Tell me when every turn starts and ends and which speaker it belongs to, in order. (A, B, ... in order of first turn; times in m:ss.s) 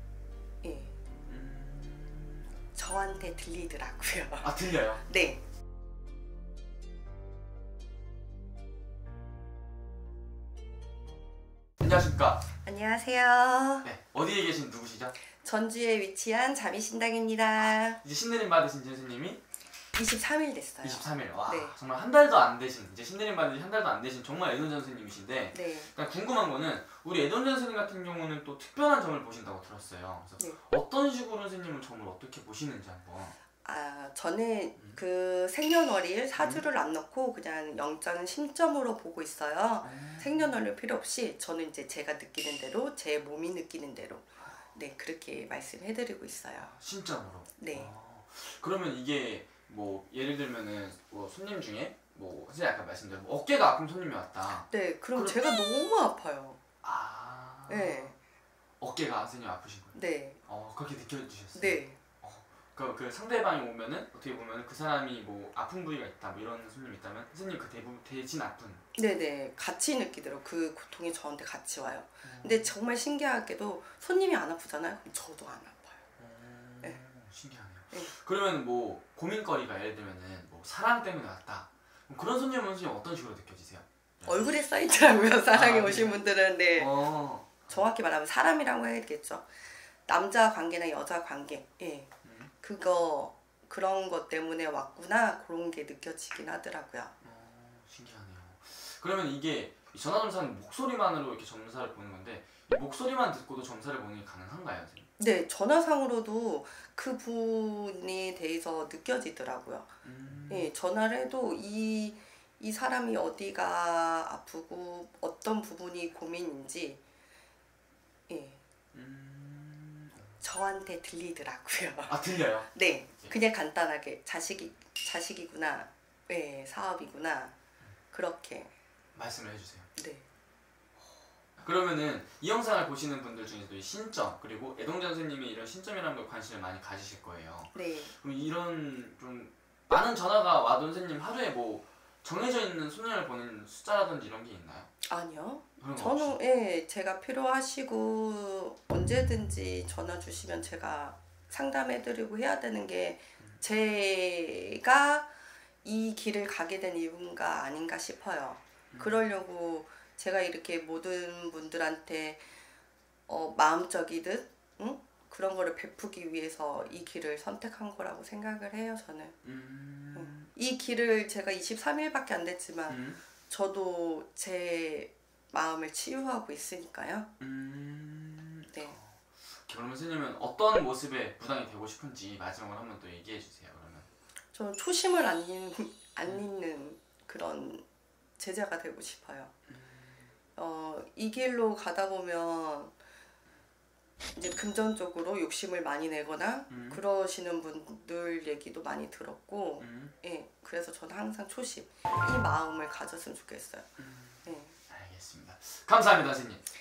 0:00.6-0:00.9 A
0:01.3-0:02.5 B
0:02.7-0:05.4 A
0:04.4-0:05.0 B
0:11.8-0:12.5 B
0:12.6-0:13.9 A
0:13.8-0:15.1 B
0:15.4-0:18.0 A
0:17.6-0:19.4 B
0:19.9-0:21.8 A
0:20.8-0:33.4 B
0:25.5-0:25.9 A
0:33.6-0:46.7 A
0:36.4-0:36.7 B
0:39.8-0:40.6 B
0:46.6-0:55.4 B
0:47.6-0:47.9 A
0:54.7-0:56.6 A
0:56.8-0:58.1 B
0:57.7-0:58.2 A
0:58.8-1:00.0 B
1:00.0-1:00.4 A
1:00.5-1:08.8 B
1:01.6-1:02.0 A
1:09.0-1:16.0 A
1:12.2-1:12.7 B
1:16.2-1:24.5 B
1:24.2-1:27.0 A
1:25.5-1:26.2 B
1:26.8-1:27.9 B
1:27.7-1:29.5 A
1:30.1-1:37.1 A
1:32.2-1:32.5 B
1:37.2-1:45.1 B
1:45.2-1:49.9 A
1:50.0-1:50.7 B
1:50.5-1:57.0 A
1:58.3-1:58.6 A
1:58.9-2:00.3 B
2:00.4-2:07.6 A
2:02.1-2:03.3 B
2:08.1-2:08.7 A
2:09.2-2:09.9 B
2:10.0-2:10.2 A
2:11.6-2:24.9 B
2:17.7-2:18.1 A
2:25.0-2:35.3 A
2:25.8-2:26.4 B
2:35.8-2:42.4 A
2:38.9-2:39.3 B
2:43.3-2:49.4 A
2:46.7-2:47.0 B
2:49.4-2:50.5 B
2:50.2-2:57.3 A
2:52.9-2:53.2 B
2:57.4-3:04.1 B
3:04.5-3:07.8 A
3:08.4-3:09.5 A
3:09.7-3:10.3 B
3:10.6-3:13.0 A
3:14.4-3:24.7 A
3:16.7-3:17.0 B
3:19.8-3:20.1 B
3:24.0-3:26.6 B